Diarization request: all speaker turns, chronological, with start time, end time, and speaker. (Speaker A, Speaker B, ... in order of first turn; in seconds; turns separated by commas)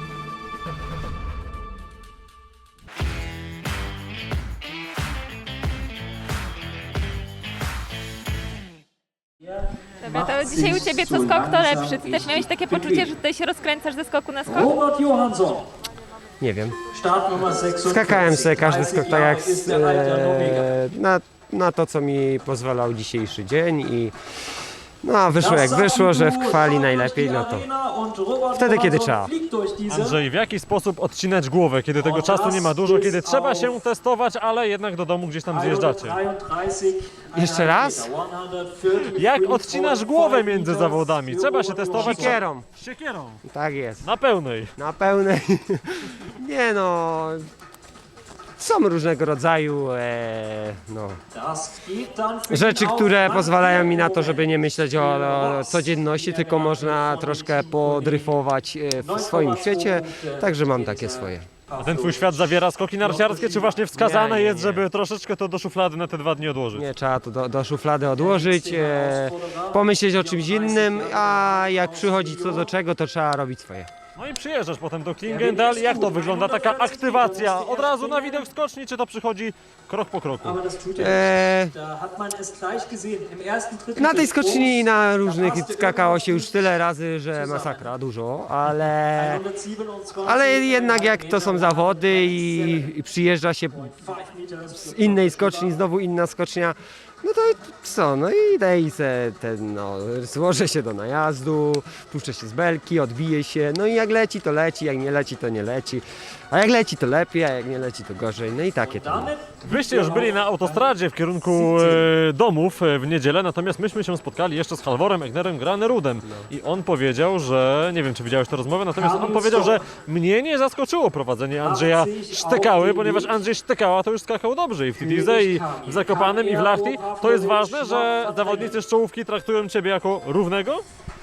Speaker A: 9.4-13.1, Speaker B: 10.0-14.7, Speaker A: 14.5-15.7, Speaker C: 16.4-16.8, Speaker A: 16.9-20.7, Speaker C: 17.9-24.1, Speaker C: 25.0-27.7, Speaker A: 25.4-30.2, Speaker C: 28.5-29.3, Speaker D: 29.9-36.2, Speaker A: 32.0-33.8, Speaker A: 35.5-42.4, Speaker C: 37.3-38.1, Speaker D: 39.0-43.4, Speaker C: 42.0-42.7, Speaker C: 43.5-44.1, Speaker D: 44.0-44.7, Speaker C: 44.8-47.5, Speaker C: 48.6-51.2, Speaker A: 51.3-58.3, Speaker C: 52.5-61.5, Speaker A: 59.0-63.8, Speaker D: 61.8-66.9, Speaker C: 63.9-64.8, Speaker C: 66.7-73.9, Speaker A: 68.2-72.7, Speaker D: 74.2-80.6, Speaker A: 75.2-78.5, Speaker A: 80.4-86.8, Speaker C: 81.0-81.7, Speaker C: 84.0-89.4, Speaker A: 87.3-87.9, Speaker A: 89.1-93.0, Speaker C: 90.2-94.0, Speaker A: 93.7-95.9, Speaker C: 94.8-109.3, Speaker A: 108.8-112.1, Speaker D: 109.6-130.8, Speaker C: 116.2-116.5, Speaker A: 118.9-119.8, Speaker A: 121.6-123.4, Speaker A: 125.0-128.8